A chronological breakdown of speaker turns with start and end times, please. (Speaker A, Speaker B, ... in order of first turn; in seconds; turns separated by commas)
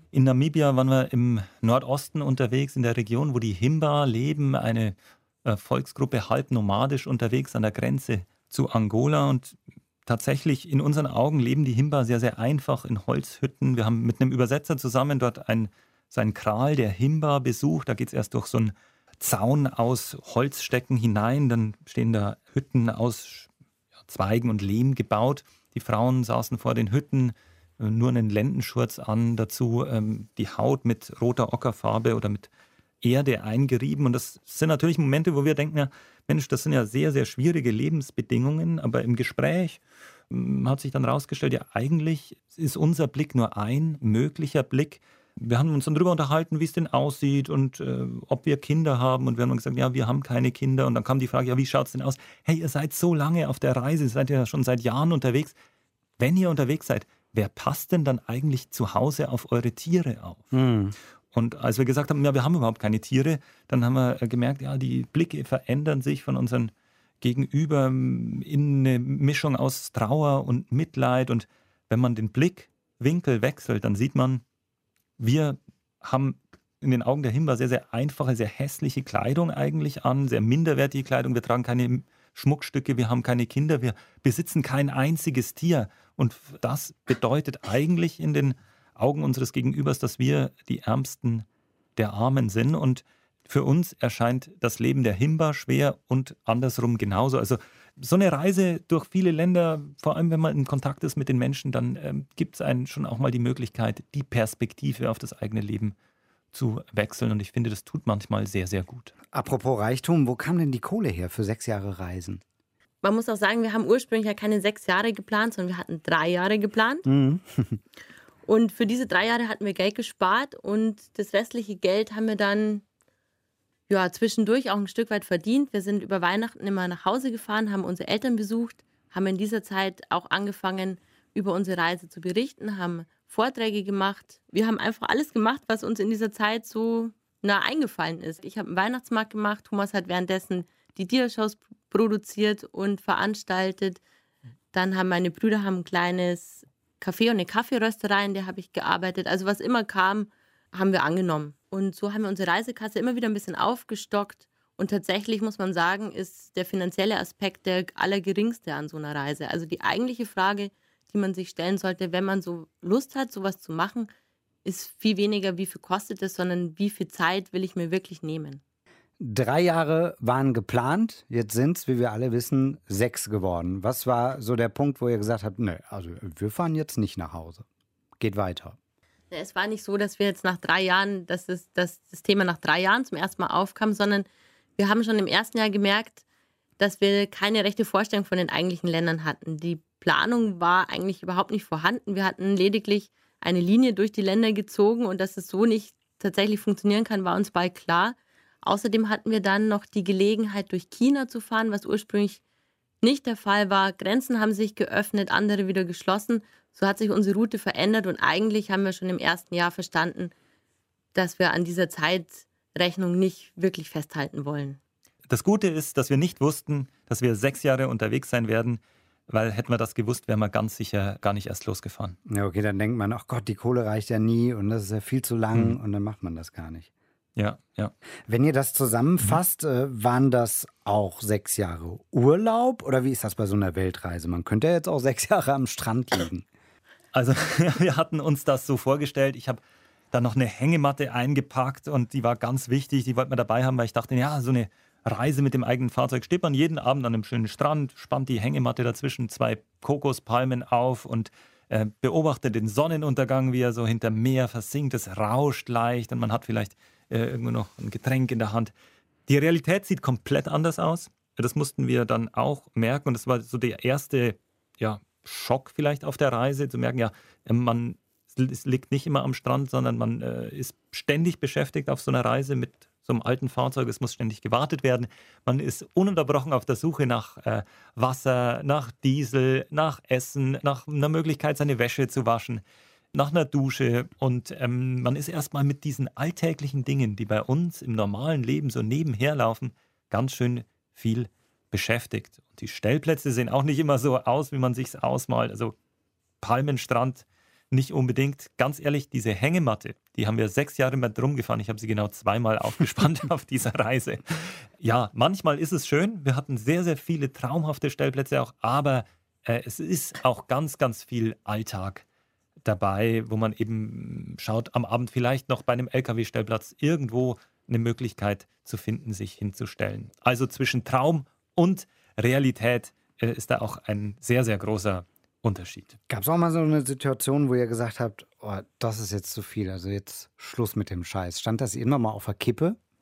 Speaker A: 0.1-23.5, Speaker A: 24.1-32.5, Speaker A: 33.0-55.6, Speaker A: 56.2-60.5, Speaker B: 60.5-61.0, Speaker A: 61.3-74.4, Speaker A: 75.2-106.0, Speaker A: 106.5-109.1, Speaker B: 109.3-112.4, Speaker C: 113.0-117.1, Speaker B: 117.1-117.8, Speaker C: 118.5-122.8, Speaker C: 123.9-144.0, Speaker C: 144.7-164.1, Speaker C: 164.6-168.6, Speaker B: 169.2-177.7, Speaker B: 178.2-178.8, Speaker C: 179.3-186.2, Speaker C: 186.8-202.4, Speaker C: 203.0-210.3, Speaker C: 211.1-214.8, Speaker A: 215.3-222.2, Speaker B: 222.3-226.9, Speaker A: 227.4-227.9, Speaker B: 228.3-236.4, Speaker A: 237.1-239.6, Speaker A: 240.1-258.7, Speaker A: 259.3-295.8, Speaker A: 296.4-312.1, Speaker A: 312.6-326.0, Speaker B: 326.1-332.8